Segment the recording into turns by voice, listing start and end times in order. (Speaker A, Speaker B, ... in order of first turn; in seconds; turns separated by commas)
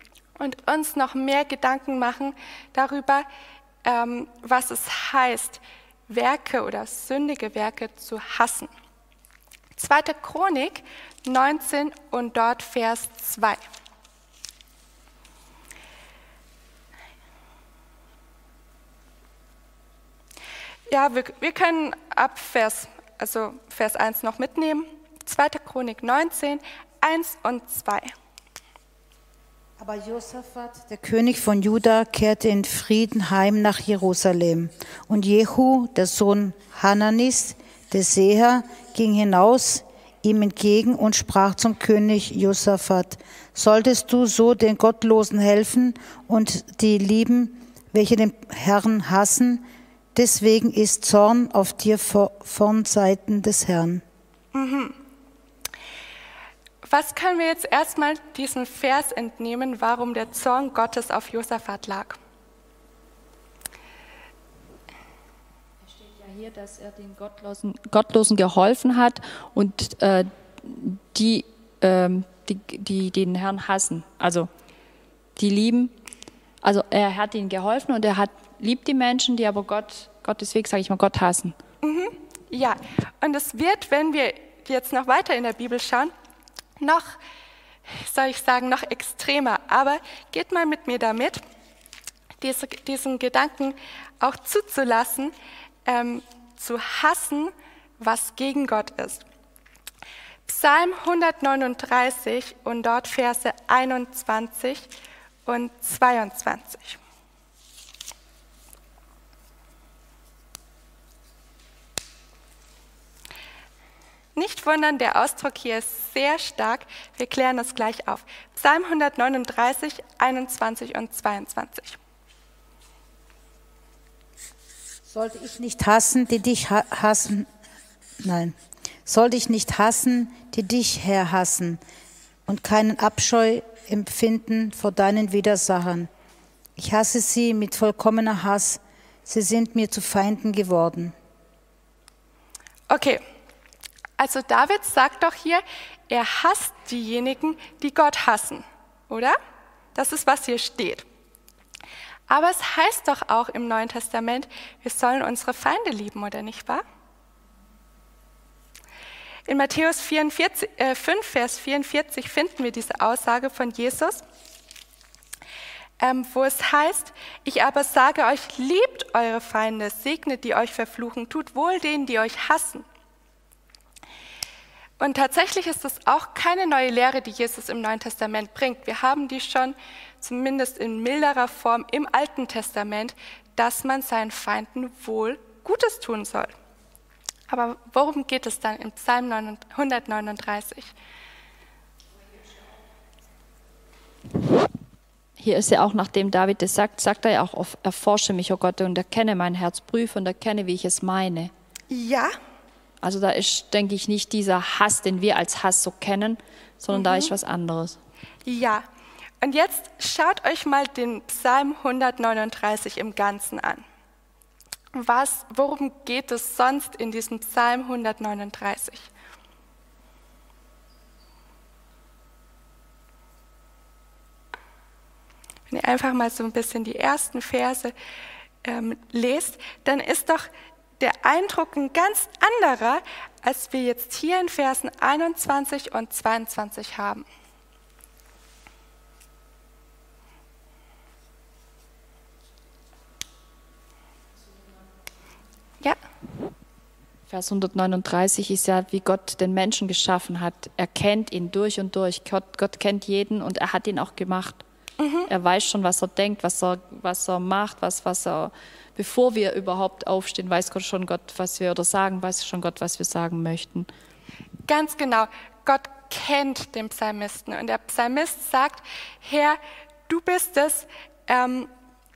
Speaker A: 0.4-3.3, Speaker A: 3.8-8.7, Speaker A: 9.8-13.6, Speaker A: 20.9-28.1, Speaker B: 29.8-54.0, Speaker A: 54.5-55.0, Speaker A: 56.9-62.2, Speaker C: 65.9-74.5, Speaker C: 75.4-75.9, Speaker C: 76.6-81.6, Speaker A: 81.8-86.1, Speaker A: 86.8-87.2, Speaker A: 87.9-91.4, Speaker A: 92.4-95.3, Speaker A: 95.8-99.2, Speaker A: 100.5-104.9, Speaker A: 105.5-107.0, Speaker A: 114.4-122.0, Speaker B: 125.1-127.5, Speaker B: 128.2-128.6, Speaker B: 129.1-131.8, Speaker B: 132.5-136.1, Speaker B: 136.8-141.2, Speaker A: 142.9-143.2, Speaker A: 144.2-149.4, Speaker A: 149.9-151.1, Speaker A: 152.3-156.8, Speaker A: 159.5-164.2, Speaker A: 166.0-172.8, Speaker A: 175.0-186.5, Speaker A: 187.5-190.9, Speaker C: 195.4-201.5, Speaker A: 201.9-202.3, Speaker C: 203.0-208.0, Speaker A: 206.9-207.3, Speaker A: 208.4-208.9, Speaker A: 209.4-213.8, Speaker A: 214.9-219.1, Speaker A: 225.7-227.9, Speaker A: 228.6-237.3, Speaker C: 247.3-254.6, Speaker A: 255.0-255.3, Speaker C: 255.3-263.9, Speaker A: 264.7-271.7